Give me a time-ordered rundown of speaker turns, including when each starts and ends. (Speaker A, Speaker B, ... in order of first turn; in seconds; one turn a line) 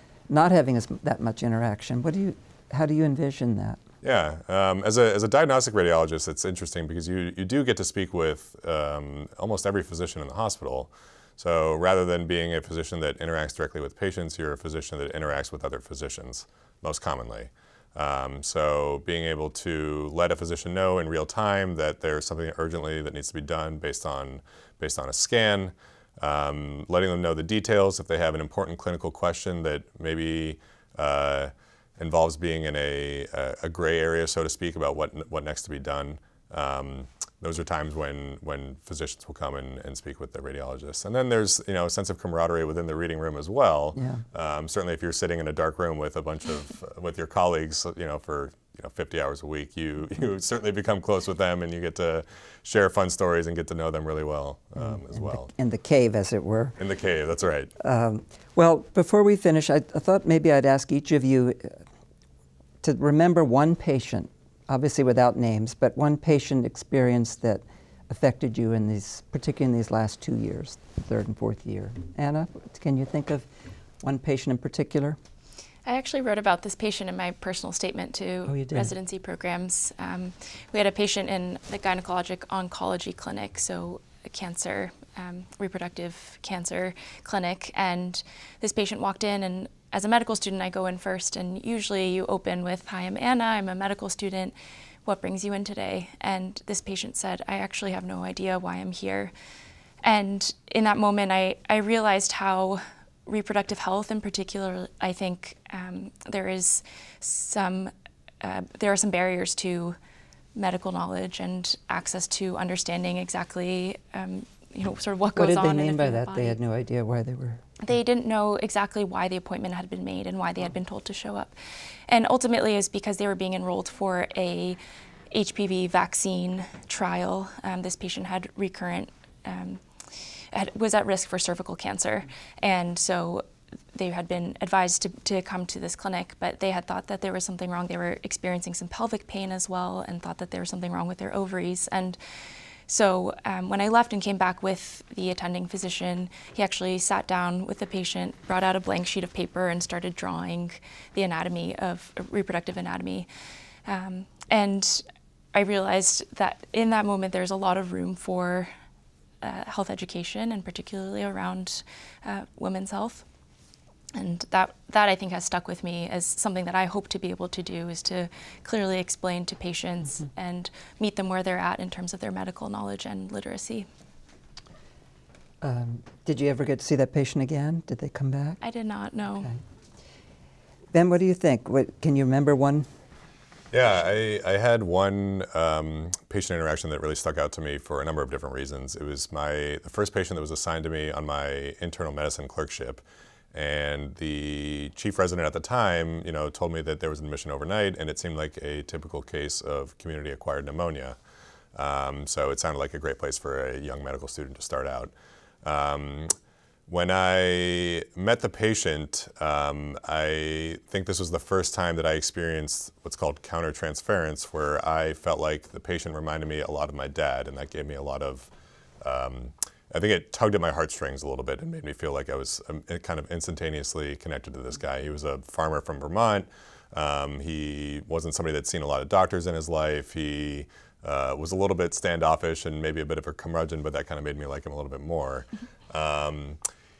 Speaker A: 0.3-3.8
Speaker B: 4.0-55.5
Speaker A: 44.0-44.2
Speaker A: 54.8-56.8
Speaker B: 56.8-57.7
Speaker A: 57.8-61.8
Speaker A: 62.8-73.5
Speaker A: 74.0-75.2
Speaker C: 75.8-99.3
Speaker A: 78.5-78.9
Speaker C: 100.0-110.0
Speaker C: 110.5-116.6
Speaker A: 115.3-117.6
Speaker C: 117.8-121.5
Speaker C: 122.1-124.8
Speaker C: 125.3-142.2
Speaker C: 142.9-153.3
Speaker C: 153.8-158.7
Speaker C: 159.4-163.2
Speaker C: 164.1-173.9
Speaker A: 175.6-178.6
Speaker C: 178.6-179.5
Speaker A: 180.9-182.9
Speaker B: 183.7-193.0
Speaker B: 193.5-201.2
Speaker B: 201.7-205.1
Speaker B: 205.6-206.3
Speaker B: 206.9-218.5
Speaker B: 219.0-236.6